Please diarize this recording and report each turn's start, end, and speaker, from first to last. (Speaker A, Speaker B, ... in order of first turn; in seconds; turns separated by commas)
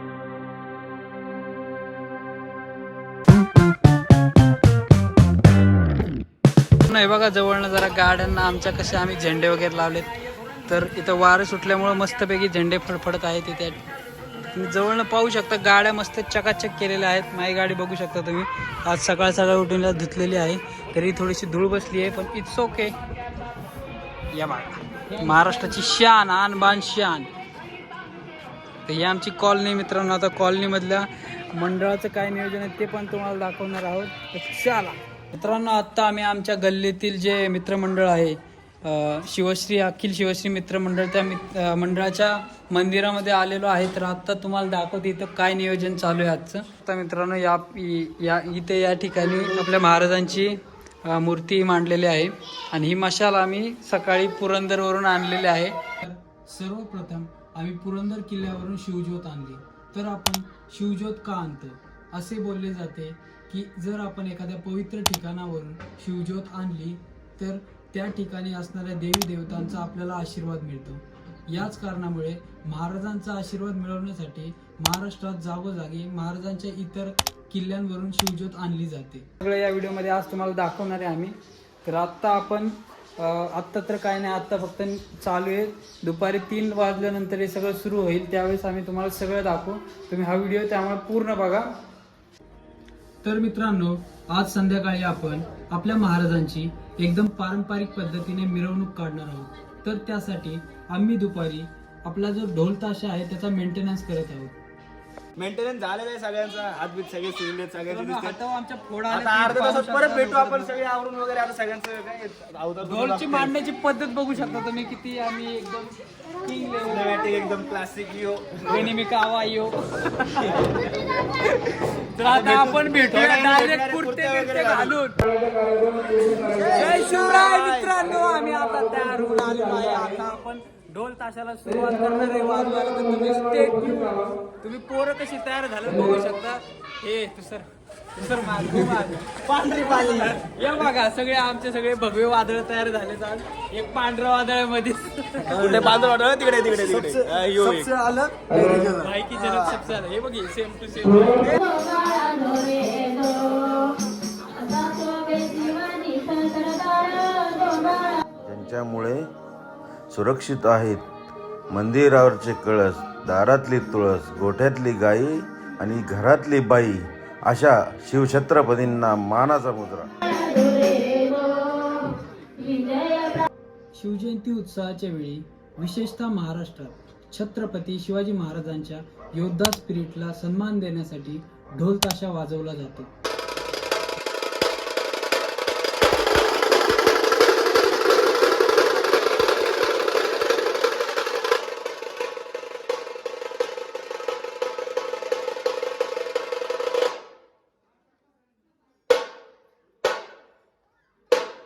Speaker A: 6.8-10.1, Speaker A: 10.6-13.8, Speaker A: 14.5-22.9, Speaker A: 24.3-27.3, Speaker A: 28.8-91.8, Speaker A: 93.2-104.5, Speaker B: 105.3-108.4, Speaker A: 107.9-110.7, Speaker B: 109.1-113.5, Speaker A: 112.8-117.2, Speaker B: 116.8-118.9, Speaker A: 118.7-120.6, Speaker A: 121.4-125.3, Speaker B: 122.3-124.9, Speaker B: 126.4-127.9, Speaker A: 126.6-145.8, Speaker B: 145.5-148.0, Speaker A: 148.5-151.6, Speaker C: 158.2-159.3, Speaker C: 160.1-161.0, Speaker C: 161.7-170.1, Speaker A: 173.9-183.1